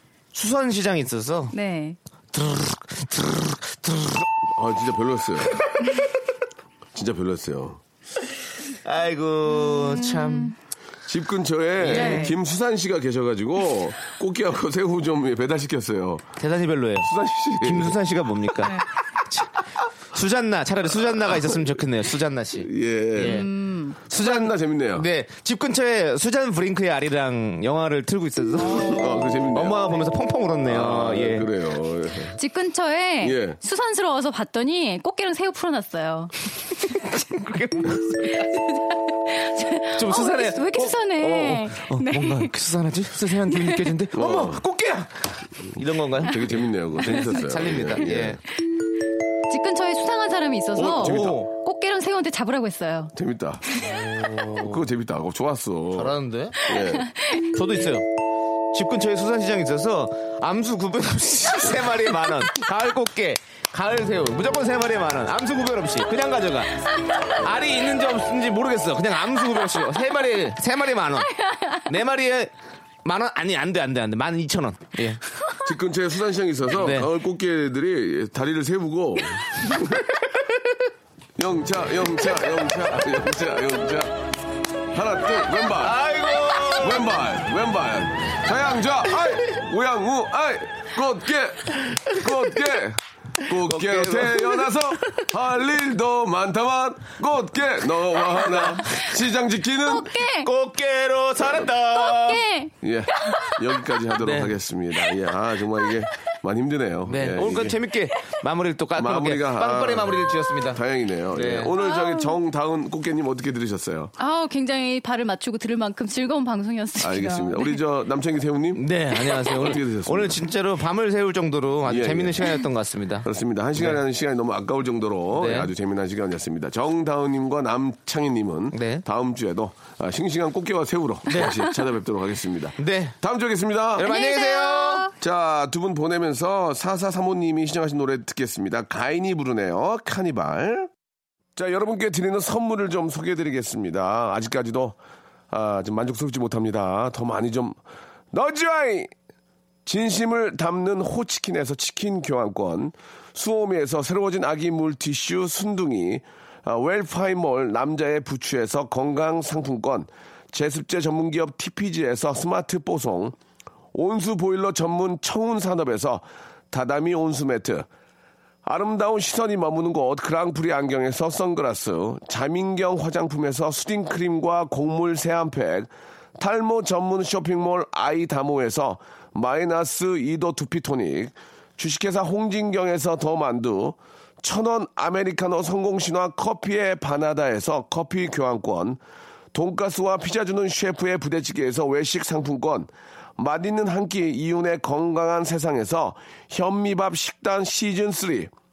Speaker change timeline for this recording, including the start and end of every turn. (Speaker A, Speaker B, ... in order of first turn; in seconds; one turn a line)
Speaker A: 0.3-1.5
Speaker B: 1.5-2.0
Speaker A: 2.3-4.3
Speaker C: 4.5-5.6
Speaker A: 5.5-6.1
Speaker C: 7.0-7.8
Speaker A: 8.7-10.6
Speaker B: 9.6-10.5
Speaker C: 11.1-16.3
Speaker A: 11.8-12.3
Speaker B: 11.9-12.3
Speaker A: 16.4-19.6
Speaker C: 17.0-18.0
Speaker A: 20.1-23.5
Speaker C: 22.6-23.5
Speaker B: 23.2-24.0
Speaker A: 24.1-31.5
Speaker C: 24.1-25.1
Speaker C: 28.8-29.9
Speaker C: 30.7-32.4
Speaker B: 32.4-36.3
Speaker C: 33.2-33.6
Speaker A: 36.9-38.6
Speaker B: 38.2-42.5
Speaker A: 40.0-48.4
Speaker B: 43.5-43.9
Speaker C: 44.1-44.6
Speaker C: 46.2-48.4
Speaker B: 49.5-53.1
Speaker C: 50.8-51.4
Speaker A: 50.8-51.5
Speaker C: 53.1-53.6
Speaker A: 53.8-54.8
Speaker C: 54.6-56.1
Speaker A: 56.0-56.6
Speaker B: 56.6-57.5
Speaker C: 56.7-57.1
Speaker A: 57.5-58.0
Speaker A: 58.7-72.5
Speaker A: 73.0-75.2
Speaker C: 75.6-80.0
Speaker A: 76.8-77.1
Speaker C: 81.4-84.2
Speaker C: 84.9-86.0
Speaker A: 85.8-87.1
Speaker C: 86.8-100.2
Speaker A: 93.7-95.2
Speaker A: 98.5-99.0
Speaker B: 99.8-100.5
Speaker A: 100.4-102.4
Speaker C: 101.4-101.7
Speaker B: 101.9-103.6
Speaker C: 102.8-107.8
Speaker A: 104.2-104.5
Speaker A: 107.1-111.8
Speaker C: 109.0-114.1
Speaker B: 111.8-112.4
Speaker B: 114.2-117.8
Speaker C: 117.0-120.4
Speaker A: 118.8-124.0
Speaker C: 121.9-122.5
Speaker C: 123.2-134.2
Speaker A: 125.3-125.7
Speaker A: 128.7-129.1
Speaker A: 131.3-131.6
Speaker A: 132.8-133.2
Speaker A: 133.9-135.1
Speaker B: 134.1-135.1
Speaker C: 135.1-140.9
Speaker C: 141.6-145.0
Speaker C: 145.5-147.8
Speaker C: 148.3-149.1
Speaker C: 149.9-163.3
Speaker C: 163.9-167.9
Speaker C: 168.7-189.0
Speaker C: 189.5-198.5